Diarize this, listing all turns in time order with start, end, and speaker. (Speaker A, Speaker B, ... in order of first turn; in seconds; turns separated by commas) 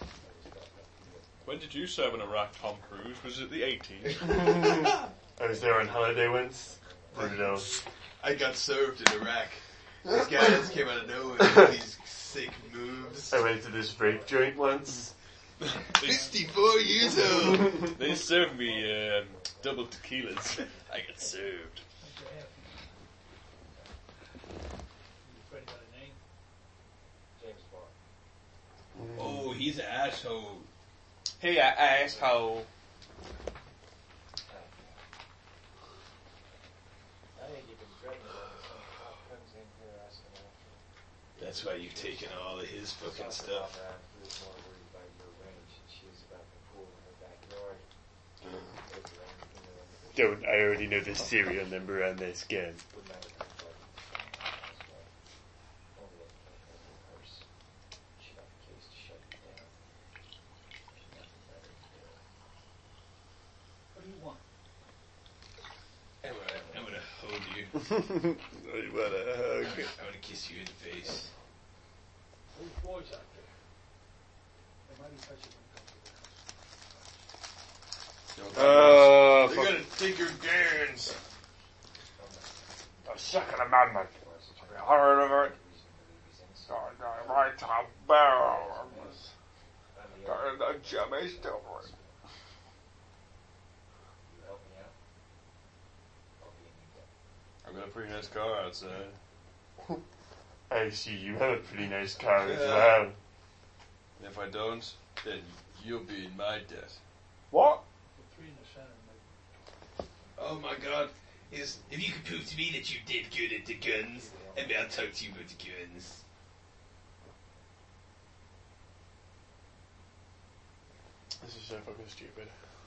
Speaker A: 0.2-2.4, Speaker B: 1.4-4.6, Speaker C: 4.4-7.7, Speaker A: 5.4-7.4, Speaker D: 7.1-13.5, Speaker E: 7.5-7.8, Speaker A: 10.5-11.6, Speaker E: 12.3-14.6, Speaker C: 13.3-15.1, Speaker D: 15.7-17.9, Speaker E: 15.9-17.3, Speaker B: 16.0-16.3, Speaker B: 17.3-21.8, Speaker A: 18.1-20.0, Speaker E: 22.0-22.9, Speaker A: 23.7-23.9, Speaker E: 25.2-26.2, Speaker A: 27.4-28.0, Speaker C: 29.0-29.4, Speaker D: 29.1-30.7, Speaker B: 31.4-32.7, Speaker A: 32.0-32.4, Speaker A: 34.5-35.0, Speaker A: 37.4-40.8, Speaker A: 41.4-47.9, Speaker D: 41.4-43.7, Speaker A: 48.4-50.8, Speaker C: 50.1-52.8, Speaker A: 52.9-55.1, Speaker A: 55.9-57.5, Speaker A: 58.2-59.7, Speaker A: 60.9-62.2, Speaker E: 63.9-64.4, Speaker D: 66.2-67.7, Speaker A: 66.4-67.0, Speaker C: 67.9-69.9, Speaker D: 69.6-71.3, Speaker E: 72.5-73.5, Speaker E: 74.8-76.4, Speaker B: 78.3-81.2, Speaker C: 78.5-79.9, Speaker A: 82.2-82.9, Speaker C: 83.0-85.5, Speaker A: 84.1-87.7, Speaker C: 86.7-89.3, Speaker A: 88.2-89.2, Speaker A: 89.9-92.2, Speaker C: 90.3-91.9, Speaker A: 94.3-95.0, Speaker A: 96.4-97.1, Speaker B: 97.6-99.2, Speaker C: 100.7-103.2, Speaker D: 102.3-103.0, Speaker B: 104.2-107.0, Speaker C: 107.5-107.8, Speaker E: 108.1-109.7, Speaker D: 110.4-116.2, Speaker A: 114.1-115.0, Speaker C: 121.4-122.5